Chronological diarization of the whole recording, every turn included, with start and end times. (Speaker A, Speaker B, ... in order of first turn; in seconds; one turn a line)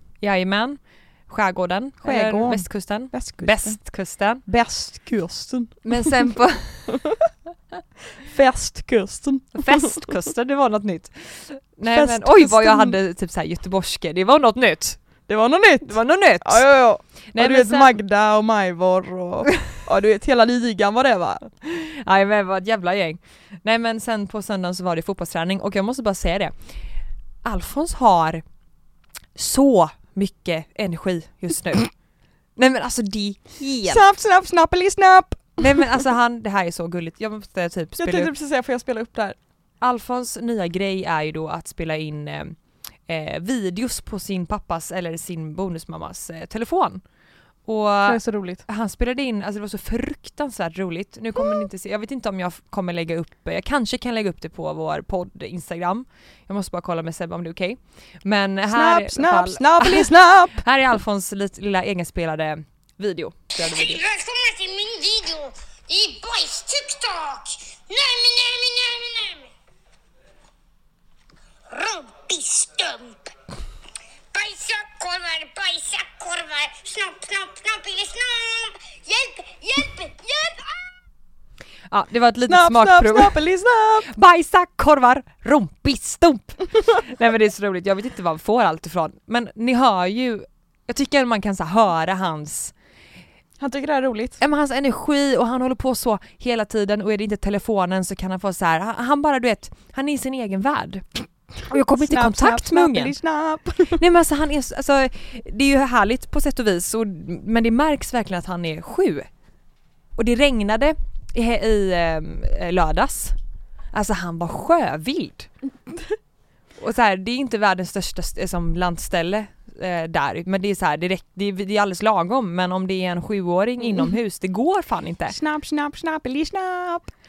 Speaker A: 0.2-4.4
Speaker B: 2.0-6.1
Speaker A: 5.8-7.0
Speaker B: 8.2-10.1
Speaker A: 9.6-15.3
Speaker B: 11.9-13.0
Speaker B: 15.3-21.5
Speaker A: 15.8-16.7
Speaker A: 17.3-18.0
Speaker A: 21.6-26.6
Speaker A: 27.4-28.4
Speaker A: 29.4-31.9
Speaker A: 32.6-34.0
Speaker B: 33.9-35.9
Speaker A: 35.6-38.3
Speaker B: 38.0-39.4
Speaker A: 39.8-47.0
Speaker A: 47.6-64.0
Speaker B: 48.1-48.6
Speaker B: 58.7-60.6
Speaker C: 63.6-69.5
Speaker C: 71.7-73.3
Speaker C: 74.3-80.7
Speaker A: 81.9-83.5
Speaker B: 82.5-84.1
Speaker A: 84.0-92.7
Speaker B: 93.6-94.4
Speaker A: 94.4-101.1
Speaker A: 101.7-103.2
Speaker B: 101.7-104.0
Speaker A: 104.0-109.3
Speaker A: 110.2-113.4
Speaker A: 113.9-115.5
Speaker A: 116.8-125.3
Speaker B: 123.8-124.1
Speaker B: 125.3-127.1